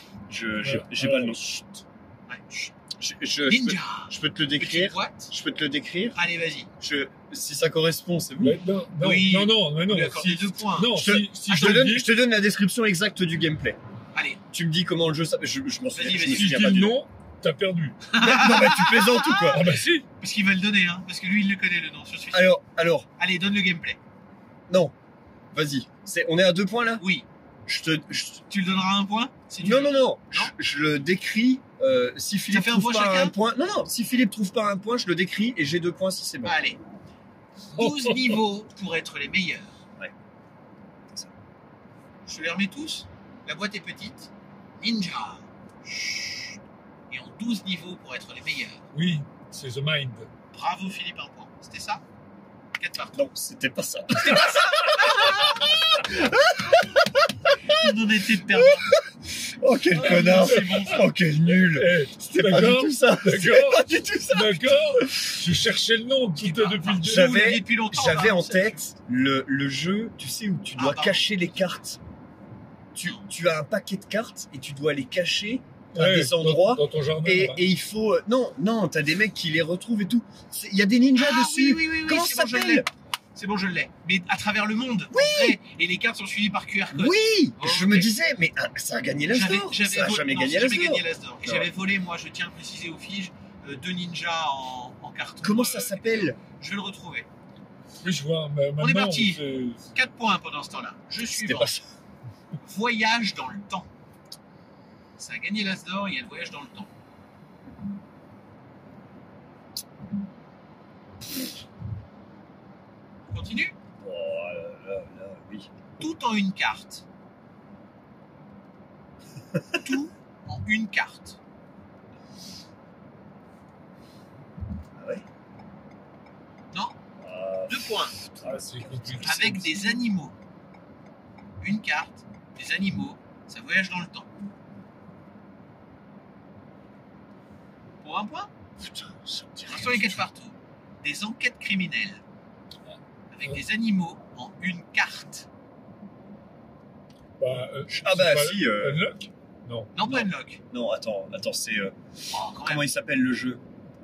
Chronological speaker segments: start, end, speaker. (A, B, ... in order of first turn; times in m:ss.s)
0:00.3-0:01.6 A
0:00.6-0:01.7 B
0:02.3-0:02.7 C
0:03.0-0:06.2 A
0:03.4-0:05.3 C
0:06.1-0:06.7 C
0:06.8-0:08.6 A
0:08.4-0:12.1 B
0:09.0-0:11.8 C
0:10.9-0:13.8 A
0:14.1-0:14.4 C
0:14.5-0:17.0 A
0:15.9-0:16.7 C
0:16.2-0:18.0 B
0:18.1-0:22.5 C
0:18.2-0:19.6 A
0:19.5-0:20.0 B
0:22.3-0:23.1 A
0:23.2-0:24.0 C
0:25.5-0:27.0 A
0:27.0-0:27.2 C
0:27.6-0:28.4 A
0:28.5-0:30.5 C
0:29.6-0:36.6 A
0:32.5-0:33.3 C
0:36.4-0:36.8 C
0:37.7-0:39.7 C
0:37.8-0:38.4 B
0:42.2-0:45.5 C
0:45.9-0:46.5 A
0:47.1-0:48.9 C
0:48.9-0:50.3 B
0:50.5-0:52.0 C
0:52.8-0:53.2 C
0:53.1-0:57.3 A
0:54.1-0:55.6 C
0:57.6-0:58.9 C
0:58.5-1:05.3 A
0:59.9-1:01.0 C
1:00.0-1:01.1 B
1:01.6-1:07.5 B
1:06.4-1:08.8 C
1:07.0-1:12.0 A
1:10.8-1:11.3 C
1:12.9-1:22.9 A
1:15.9-1:17.6 B
1:21.1-1:28.1 C
1:25.1-1:25.6 A
1:26.9-1:31.7 A
1:29.3-1:37.3 C
1:35.4-1:36.4 A
1:38.0-1:39.9 B
1:38.8-1:39.4 C
1:39.9-1:41.7 C
1:41.2-1:41.8 A
1:42.6-1:43.9 C
1:45.2-1:46.9 C
1:53.3-1:53.7 C
1:54.0-1:55.7 A
1:56.0-1:57.0 C
1:59.8-2:01.4 C
2:04.9-2:05.2 A
2:06.7-2:07.0 C
2:07.2-2:09.6 A
2:07.7-2:08.2 C
2:08.4-2:09.7 B
2:09.2-2:10.4 C
2:11.6-2:14.3 C
2:18.0-2:18.5 C
2:18.8-2:20.2 A
2:19.7-2:22.2 C
2:23.3-2:25.5 C
2:27.4-2:30.2 B
2:27.9-2:29.0 A
2:29.9-2:30.6 C
2:30.7-2:32.0 A
2:32.3-2:32.8 C
2:32.6-2:33.6 A